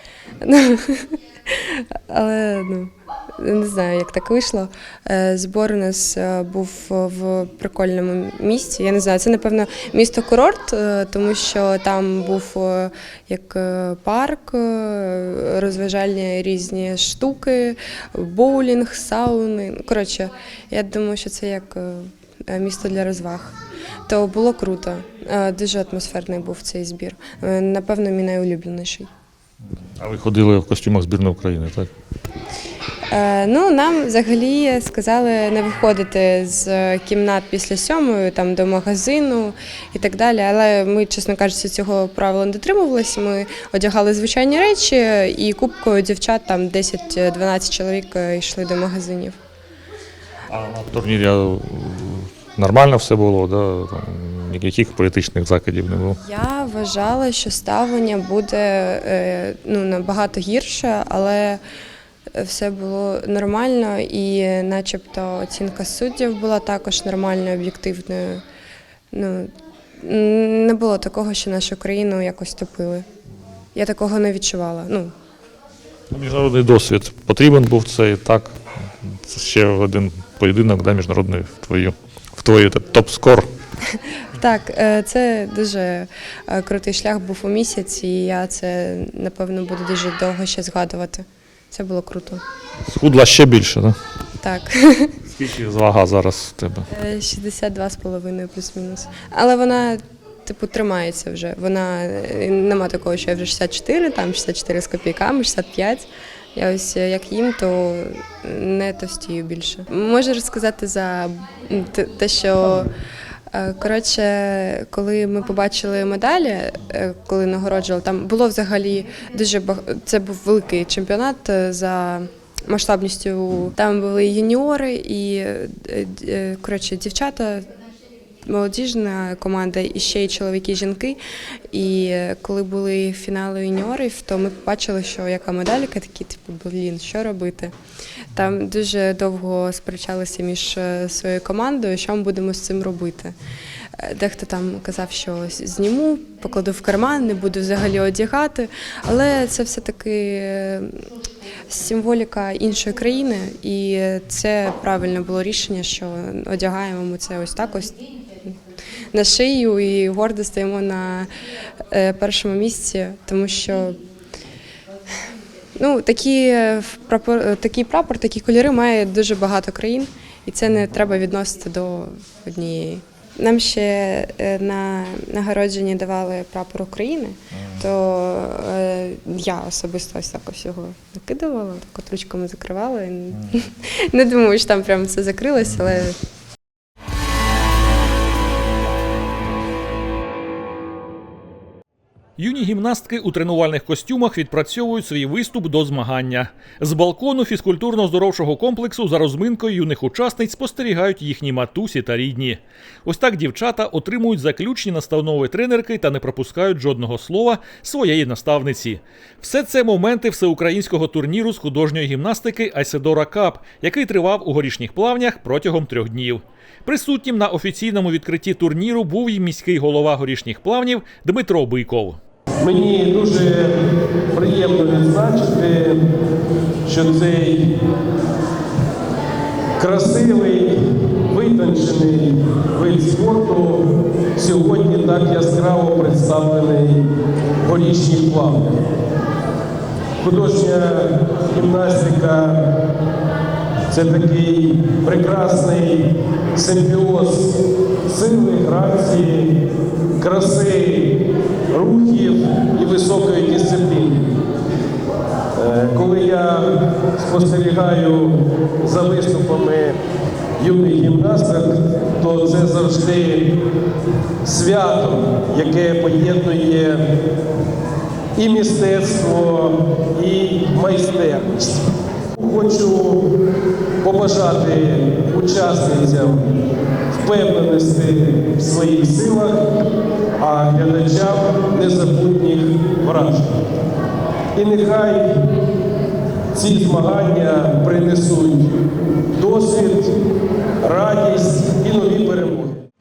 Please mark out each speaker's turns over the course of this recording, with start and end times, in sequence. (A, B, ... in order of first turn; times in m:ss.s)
0:00.4-0:29.1 A
0:30.0-0:31.9 B
0:33.1-0:49.4 A
0:50.5-0:56.2 B
0:56.2-1:01.6 A
1:02.3-1:08.4 A
1:09.1-1:13.0 A
1:13.7-1:15.1 A
1:16.1-1:23.5 B
1:24.2-1:32.4 A
1:32.8-1:34.0 B
1:34.4-1:35.2 A
1:35.3-1:36.8 B
1:36.9-1:52.9 A
1:53.5-2:07.7 A
2:08.4-2:11.2 A
2:11.7-2:17.7 A
2:18.3-2:23.3 A
2:24.0-2:31.0 A
2:31.7-2:38.6 A
2:39.1-2:41.3 A
2:41.9-2:44.0 A
2:45.8-3:06.2 A
3:12.4-3:42.2 C
3:42.6-3:43.8 D
3:44.3-3:46.0 D
3:46.8-3:47.8 D
3:49.8-3:57.1 D
3:57.6-3:58.8 D
4:00.2-4:02.7 D
4:03.9-4:07.5 D
4:08.1-4:09.5 D
4:10.2-4:11.2 D
4:11.7-4:14.3 D
4:15.5-4:20.0 D
4:20.6-4:23.5 D
4:24.4-4:27.0 D
4:28.4-4:33.3 D
4:34.0-4:36.5 D
4:37.1-4:39.6 D
4:40.4-4:43.5 D
4:44.5-4:45.5 D
4:46.5-4:48.8 D
4:49.3-4:50.1 D
4:50.8-4:52.8 D